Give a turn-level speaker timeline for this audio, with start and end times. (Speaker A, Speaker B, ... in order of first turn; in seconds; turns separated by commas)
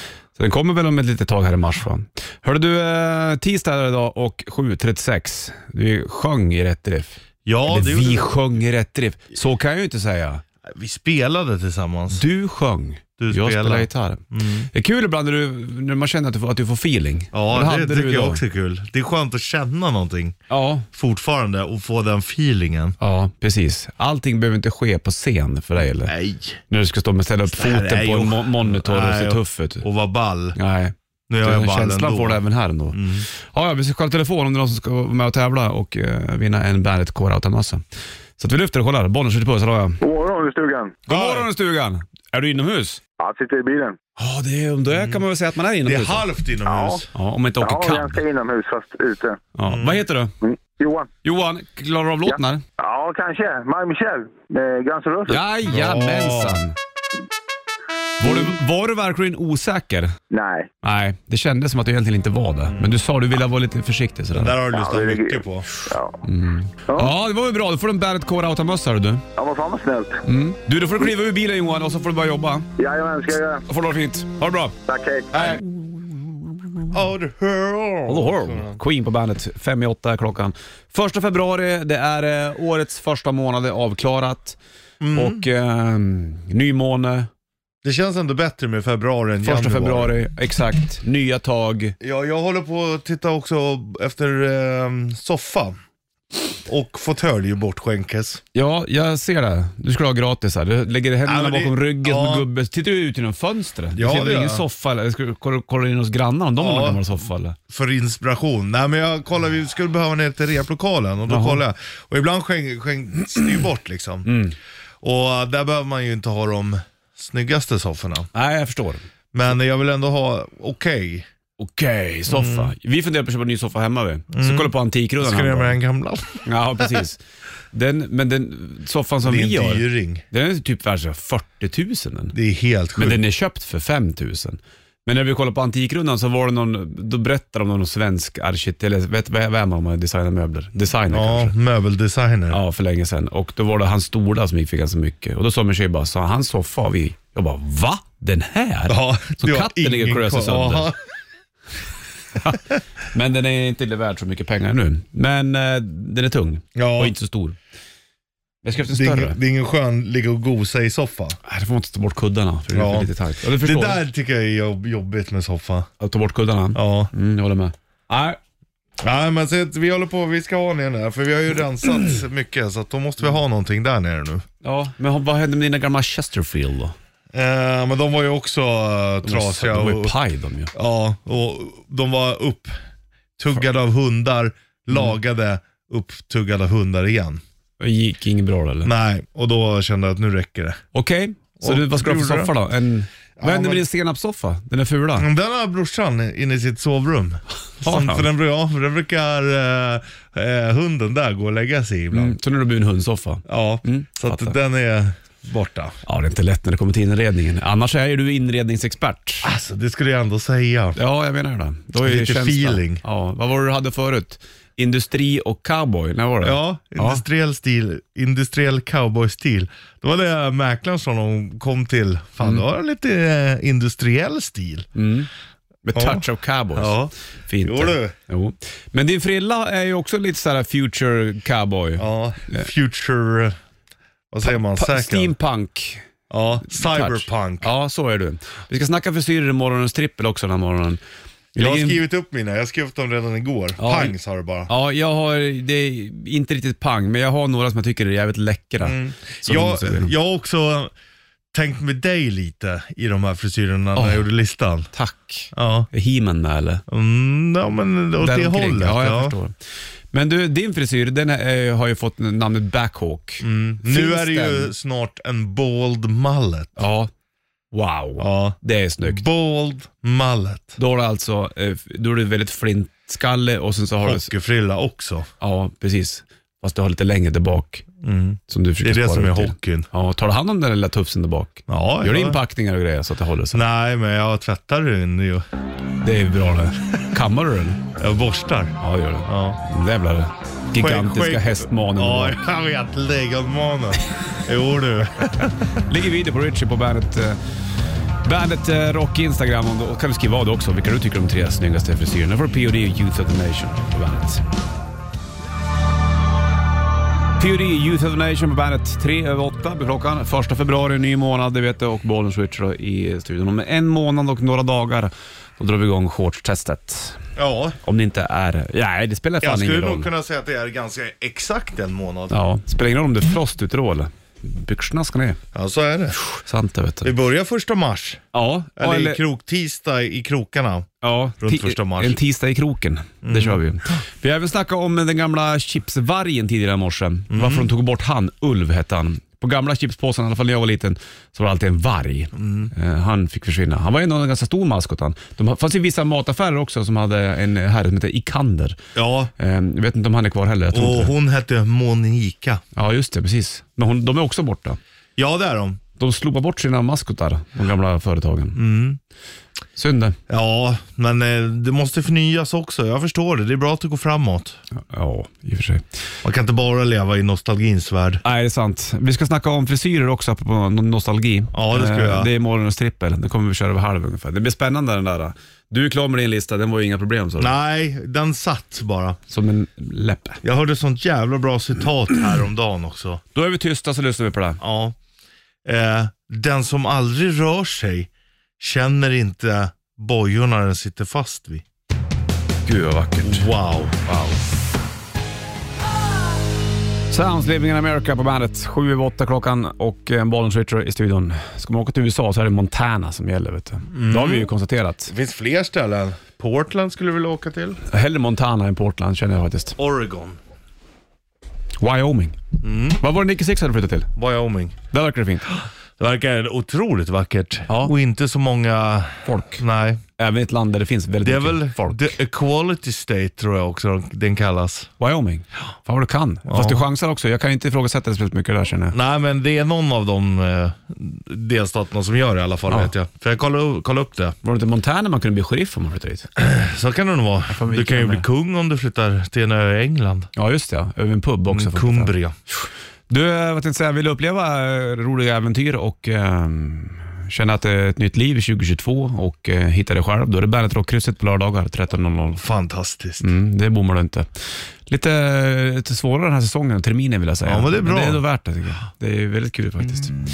Speaker A: 0.3-10.4, Speaker B: 7.5-8.3, Speaker B: 10.6-12.2, Speaker A: 12.1-18.4, Speaker B: 13.2-14.7, Speaker B: 17.3-20.4, Speaker A: 20.5-20.9, Speaker B: 20.9-23.0, Speaker A: 23.0-26.1, Speaker B: 26.0-26.6, Speaker A: 26.7-29.9, Speaker B: 27.5-30.6, Speaker A: 30.5-37.8, Speaker B: 31.3-32.4, Speaker B: 32.9-33.3, Speaker A: 38.4-40.0, Speaker C: 40.0-41.0, Speaker A: 41.1-43.0, Speaker B: 41.1-41.5, Speaker C: 43.2-44.0, Speaker A: 44.2-46.2, Speaker B: 44.9-45.2, Speaker B: 45.8-47.1, Speaker C: 46.6-47.0, Speaker A: 47.1-48.2, Speaker C: 47.6-49.4, Speaker A: 49.5-50.3, Speaker B: 49.6-50.0, Speaker C: 50.4-51.1, Speaker A: 51.2-52.6, Speaker C: 52.3-55.4, Speaker A: 55.3-56.8, Speaker B: 55.6-56.6, Speaker A: 58.2-60.1, Speaker C: 60.3-60.7, Speaker A: 60.8-64.6, Speaker B: 62.7-62.9, Speaker B: 64.3-65.7, Speaker C: 64.7-66.2, Speaker A: 66.2-69.2, Speaker C: 69.4-70.2, Speaker A: 70.2-72.7, Speaker C: 72.8-73.6, Speaker A: 73.7-74.7, Speaker C: 74.9-75.3, Speaker B: 75.3-75.6, Speaker A: 75.3-76.9, Speaker B: 76.9-78.8, Speaker A: 78.1-84.6, Speaker B: 85.0-85.5, Speaker A: 85.1-87.3, Speaker B: 87.8-90.1, Speaker A: 89.4-91.9, Speaker B: 92.0-95.8, Speaker B: 96.7-98.4, Speaker A: 98.5-107.6, Speaker B: 101.2-102.5, Speaker B: 103.9-104.6, Speaker B: 106.6-107.0, Speaker B: 107.7-114.3, Speaker A: 111.3-111.6, Speaker A: 114.2-114.5, Speaker B: 115.0-118.3, Speaker A: 118.3-119.0, Speaker B: 119.3-121.3, Speaker A: 121.6-125.8, Speaker B: 122.3-122.7, Speaker B: 124.3-127.0, Speaker A: 126.4-127.2, Speaker A: 127.7-132.3, Speaker B: 129.2-130.2, Speaker B: 132.3-133.2, Speaker A: 133.0-141.5, Speaker B: 141.1-142.6, Speaker A: 142.5-150.9, Speaker B: 148.9-151.0, Speaker A: 152.4-157.6, Speaker B: 156.7-157.1, Speaker A: 158.6-159.4, Speaker B: 158.9-161.4, Speaker A: 161.4-164.0, Speaker B: 162.7-165.9, Speaker A: 166.0-168.4, Speaker B: 166.7-167.1, Speaker B: 169.0-174.4, Speaker A: 174.6-176.9, Speaker B: 177.3-180.1, Speaker A: 179.2-180.7, Speaker B: 180.7-182.7, Speaker B: 183.4-187.4, Speaker A: 187.8-188.9, Speaker B: 188.8-190.8, Speaker A: 190.9-195.3, Speaker B: 191.6-192.5, Speaker B: 193.4-193.8, Speaker B: 195.2-202.3, Speaker A: 197.8-198.2, Speaker A: 202.1-204.6, Speaker B: 203.5-206.0, Speaker A: 206.0-209.5, Speaker B: 209.4-211.0, Speaker A: 210.9-217.2, Speaker B: 212.0-213.0, Speaker B: 216.4-224.9, Speaker A: 224.9-225.3, Speaker A: 225.8-232.7, Speaker B: 225.9-228.1, Speaker B: 232.0-233.6, Speaker B: 234.3-235.3, Speaker A: 234.4-236.0, Speaker B: 236.3-237.7, Speaker A: 236.7-241.0, Speaker A: 241.5-242.0, Speaker B: 241.6-244.7, Speaker A: 243.8-244.1, Speaker A: 244.7-250.1, Speaker B: 248.8-250.9, Speaker B: 251.5-254.9, Speaker A: 253.9-254.2, Speaker A: 254.9-256.8, Speaker B: 255.5-255.9, Speaker B: 256.9-259.4, Speaker A: 258.2-259.5, Speaker A: 260.1-264.7, Speaker B: 263.4-266.8, Speaker A: 266.8-267.1, Speaker A: 267.7-269.2, Speaker B: 268.2-270.8, Speaker A: 270.8-274.3, Speaker B: 274.0-275.3, Speaker A: 275.4-277.9, Speaker B: 278.0-279.9, Speaker A: 278.5-283.6, Speaker B: 281.7-282.4, Speaker B: 283.5-285.4, Speaker A: 286.0-287.8, Speaker B: 288.0-289.6, Speaker A: 288.8-292.4, Speaker B: 290.8-295.6, Speaker A: 295.7-297.4, Speaker A: 298.2-304.4, Speaker A: 307.4-317.2, Speaker B: 317.4-317.8, Speaker A: 317.8-320.1, Speaker B: 319.4-322.4, Speaker A: 322.3-325.4, Speaker B: 325.5-326.2, Speaker A: 326.2-327.1, Speaker B: 327.0-328.2, Speaker A: 328.3-329.2, Speaker B: 328.8-332.2, Speaker A: 331.0-348.8, Speaker B: 333.2-333.9, Speaker B: 337.3-337.7, Speaker B: 342.3-342.7, Speaker B: 348.9-349.3, Speaker A: 349.4-351.1, Speaker B: 350.7-352.6, Speaker A: 352.7-354.8, Speaker B: 355.2-355.8, Speaker A: 356.0-358.6, Speaker B: 358.5-359.0, Speaker A: 359.8-360.2, Speaker B: 360.3-364.6, Speaker A: 364.8-365.8, Speaker B: 366.2-368.2, Speaker A: 368.2-377.5, Speaker B: 371.5-372.3, Speaker B: 377.4-379.2, Speaker A: 379.3-380.4, Speaker B: 380.4-383.2, Speaker A: 383.3-384.6, Speaker B: 384.6-384.9, Speaker B: 385.6-391.6, Speaker A: 392.6-393.5, Speaker B: 393.2-394.1, Speaker A: 394.1-394.4, Speaker A: 397.1-405.1, Speaker B: 403.9-404.5, Speaker B: 405.1-407.8, Speaker A: 407.9-409.8, Speaker B: 409.8-410.4, Speaker A: 411.8-412.4, Speaker B: 412.6-413.0, Speaker A: 413.0-414.1, Speaker B: 414.1-414.8, Speaker A: 414.9-415.5, Speaker B: 415.5-420.0, Speaker A: 417.7-417.9, Speaker A: 419.2-419.6, Speaker A: 420.2-422.1, Speaker B: 421.2-424.9, Speaker A: 425.0-428.9, Speaker B: 426.5-426.9, Speaker B: 428.9-434.4, Speaker A: 434.4-436.3, Speaker B: 436.4-440.3, Speaker A: 437.5-438.2, Speaker A: 440.4-452.4, Speaker B: 441.5-442.3, Speaker B: 452.4-453.3, Speaker A: 453.2-454.3, Speaker A: 454.9-460.1, Speaker B: 457.4-458.2